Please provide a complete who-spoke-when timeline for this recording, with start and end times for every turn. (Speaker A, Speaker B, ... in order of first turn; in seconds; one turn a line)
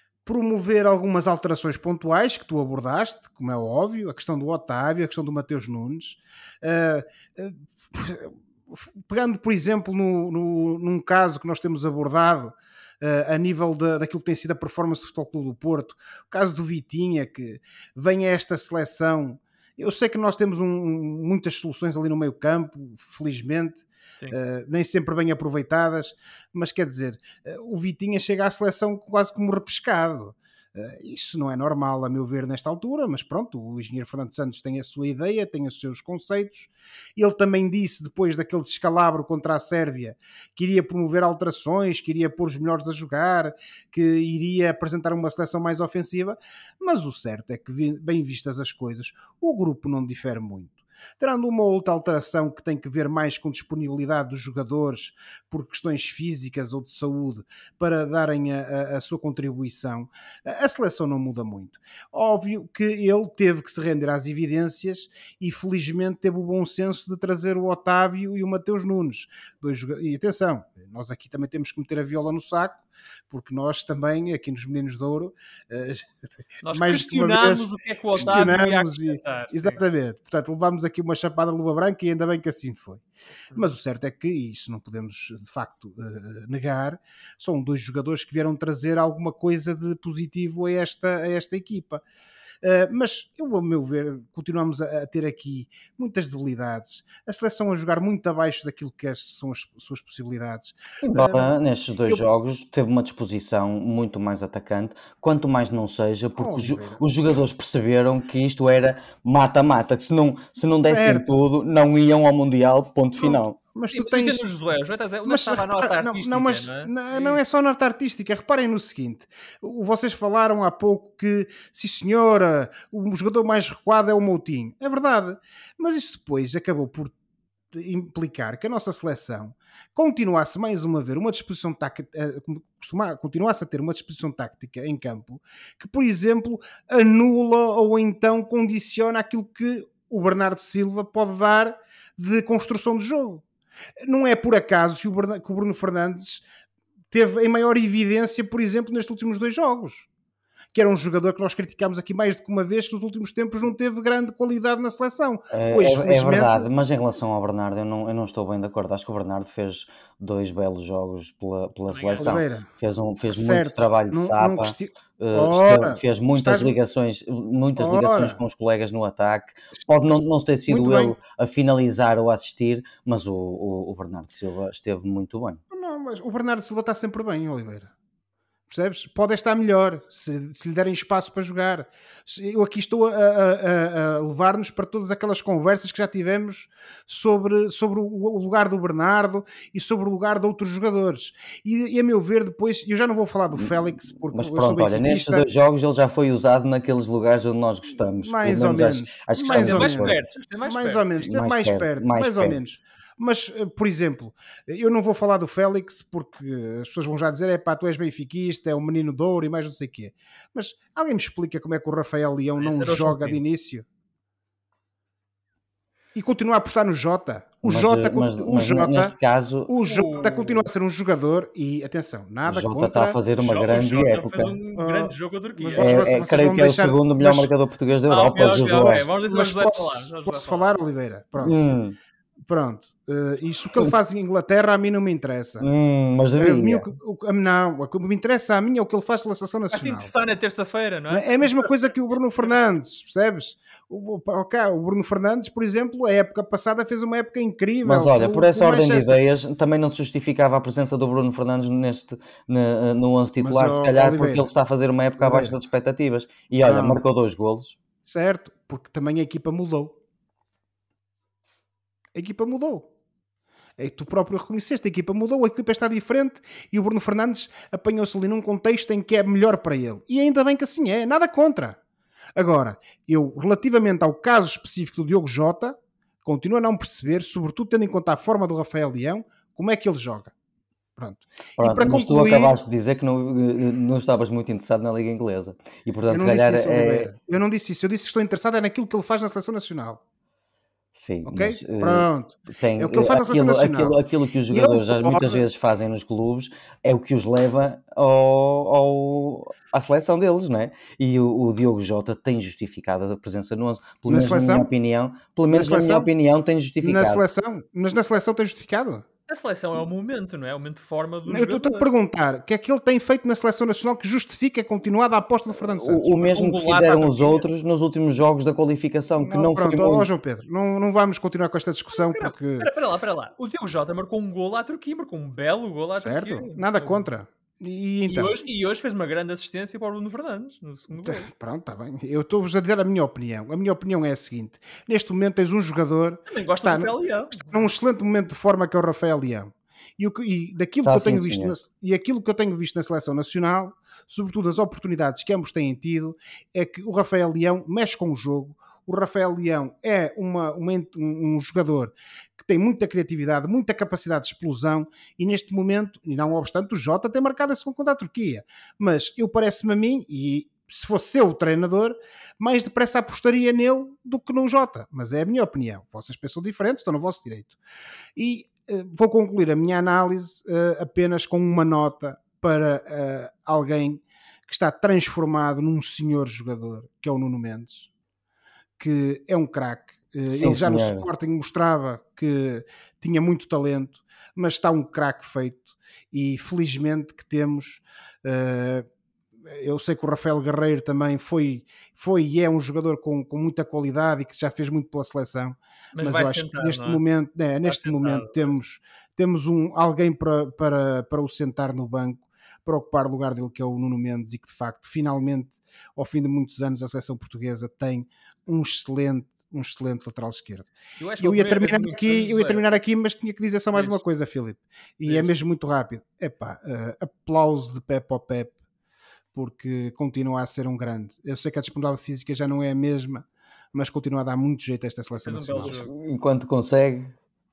Speaker A: 0.2-76.1
Speaker B: 76.6-79.8
Speaker A: 76.7-83.0
Speaker A: 83.5-92.0
Speaker A: 92.6-101.5
Speaker C: 101.0-113.6
Speaker A: 106.4-107.0
Speaker A: 110.8-111.3
Speaker A: 113.2-114.4
Speaker B: 113.9-117.4
Speaker A: 115.2-127.1
Speaker A: 127.7-143.4
Speaker A: 144.0-146.4
Speaker A: 147.1-150.1
Speaker A: 150.7-156.7
Speaker C: 155.5-175.6
Speaker B: 161.9-162.4
Speaker A: 162.2-162.7
Speaker A: 163.3-166.7
Speaker A: 167.8-168.4
Speaker A: 170.7-171.2
Speaker A: 175.7-177.9
Speaker A: 178.7-195.4
Speaker C: 194.3-200.2
Speaker A: 198.2-213.8
Speaker B: 199.5-201.2
Speaker C: 201.2-202.6
Speaker B: 212.6-213.4
Speaker A: 216.1-219.1
Speaker C: 217.6-219.7
Speaker A: 219.7-223.2
Speaker B: 219.8-220.7
Speaker C: 222.4-224.5
Speaker B: 223.3-226.1
Speaker A: 224.8-227.5
Speaker C: 225.8-229.1
Speaker B: 228.1-230.8
Speaker A: 228.8-231.6
Speaker C: 231.4-232.0
Speaker A: 232.5-235.7
Speaker C: 235.6-236.9
Speaker A: 236.3-240.1
Speaker B: 239.7-241.7
Speaker A: 241.1-249.2
Speaker C: 247.8-257.8
Speaker A: 253.4-254.5
Speaker A: 255.2-255.6
Speaker A: 256.6-257.0
Speaker A: 258.0-260.0
Speaker A: 262.1-262.9
Speaker A: 263.8-271.8
Speaker A: 272.4-280.3
Speaker A: 281.0-282.6
Speaker C: 281.6-287.1
Speaker A: 286.1-290.0
Speaker C: 290.9-307.2
Speaker A: 291.2-294.0
Speaker A: 294.5-295.4
Speaker A: 304.1-304.7
Speaker A: 305.5-306.1
Speaker A: 306.8-309.1
Speaker B: 309.3-311.9
Speaker A: 311.3-316.1
Speaker C: 315.6-320.1
Speaker B: 316.2-317.5
Speaker A: 319.2-322.7
Speaker B: 321.9-327.0
Speaker A: 325.9-328.3
Speaker B: 328.1-331.3
Speaker A: 330.9-367.6
Speaker B: 336.3-337.7
Speaker C: 340.8-341.5
Speaker A: 368.1-377.9
Speaker A: 378.8-388.9
Speaker C: 380.3-381.1
Speaker A: 389.4-418.5
Speaker B: 395.9-397.0
Speaker B: 397.6-398.5
Speaker B: 411.0-412.7
Speaker B: 413.7-414.0
Speaker B: 415.1-415.3
Speaker A: 419.3-425.7
Speaker B: 425.2-425.9
Speaker C: 425.6-427.1